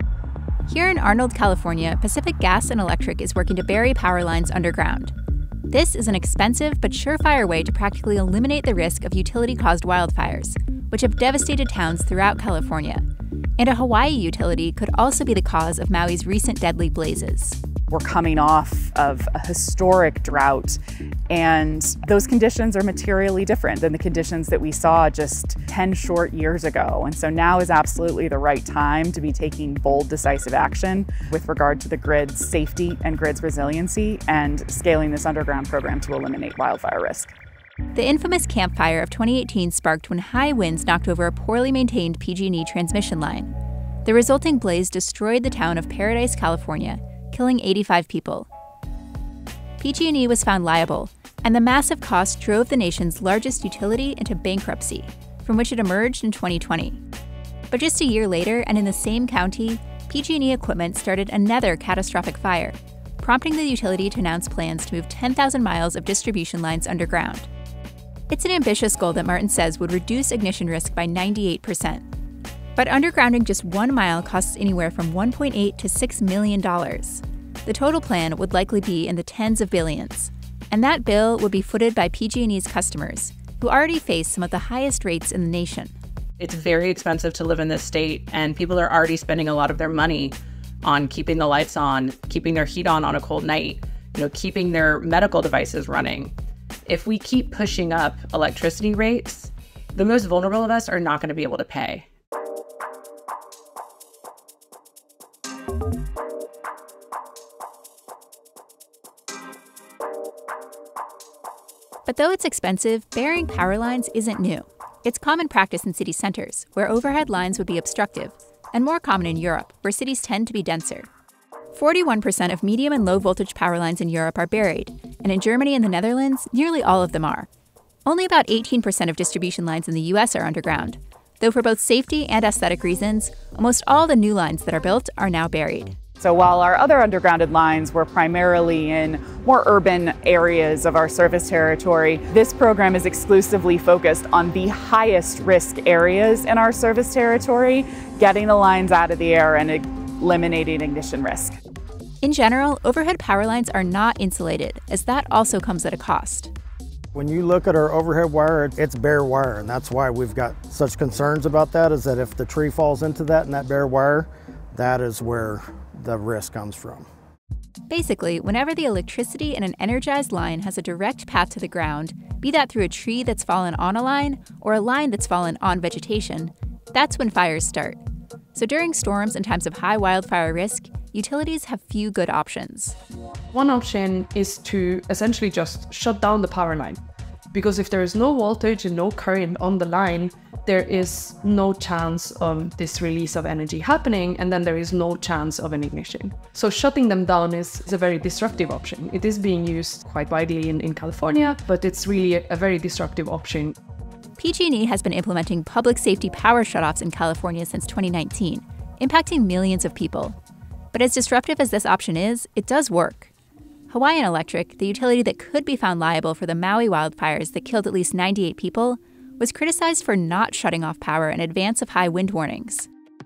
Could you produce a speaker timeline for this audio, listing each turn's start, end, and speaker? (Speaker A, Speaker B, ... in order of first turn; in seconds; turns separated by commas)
Speaker A: 0.7-5.1, Speaker A: 5.7-13.1, Speaker A: 13.6-17.6, Speaker B: 17.9-37.3, Speaker A: 37.9-43.5, Speaker A: 44.0-48.5, Speaker A: 49.8-57.0, Speaker A: 57.7-67.5, Speaker A: 68.3-72.0, Speaker A: 72.8-85.9, Speaker C: 86.4-96.3, Speaker C: 96.9-102.0, Speaker A: 112.1-121.1, Speaker A: 121.7-127.5, Speaker A: 128.1-135.9, Speaker B: 136.2-151.6, Speaker A: 152.2-156.5, Speaker D: 157.1-167.1, Speaker A: 167.9-178.0, Speaker A: 178.5-183.0, Speaker E: 183.5-187.0, Speaker E: 187.5-203.8, Speaker A: 204.4-210.4, Speaker A: 210.9-213.3, Speaker A: 213.9-222.9